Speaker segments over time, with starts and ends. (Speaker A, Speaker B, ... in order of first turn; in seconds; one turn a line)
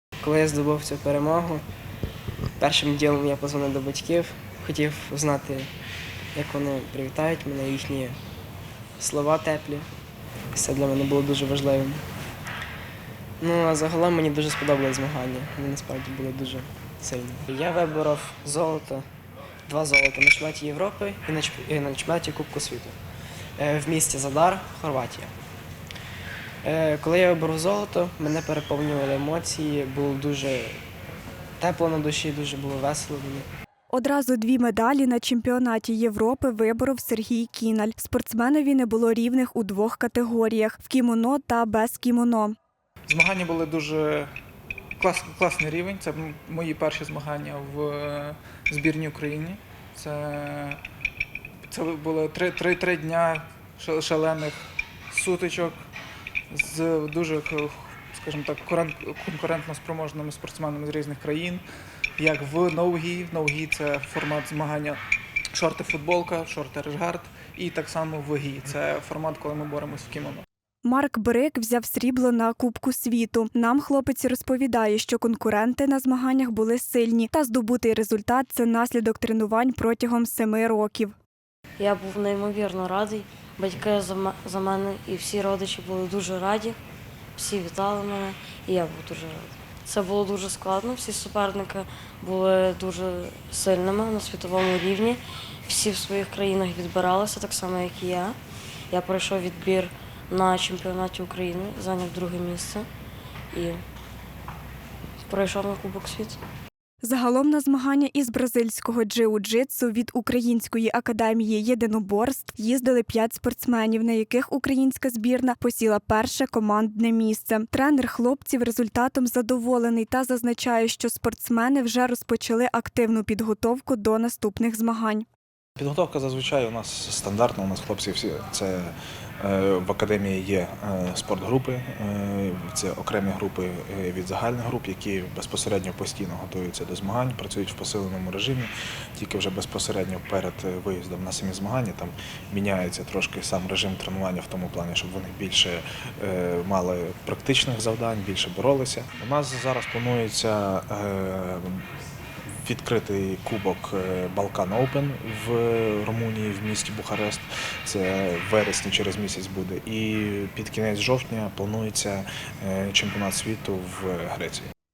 Speaker A: 0.2-1.6
Speaker A: 2.6-5.7
Speaker A: 6.3-8.2
Speaker A: 9.0-9.9
Speaker A: 10.5-12.0
Speaker A: 13.4-19.1
Speaker A: 19.7-23.0
Speaker A: 23.6-25.3
Speaker A: 26.6-30.8
Speaker A: 31.6-33.5
Speaker B: 33.9-42.5
Speaker C: 43.1-44.3
Speaker C: 45.0-50.8
Speaker C: 51.7-55.8
Speaker C: 56.5-61.6
Speaker C: 62.2-65.0
Speaker C: 65.5-70.4
Speaker B: 70.8-81.2
Speaker D: 81.8-86.8
Speaker D: 87.3-98.3
Speaker D: 98.9-102.8
Speaker D: 103.5-103.8
Speaker D: 105.3-106.4
Speaker B: 107.0-125.2
Speaker E: 125.8-151.8
Speaker E: 152.6-164.7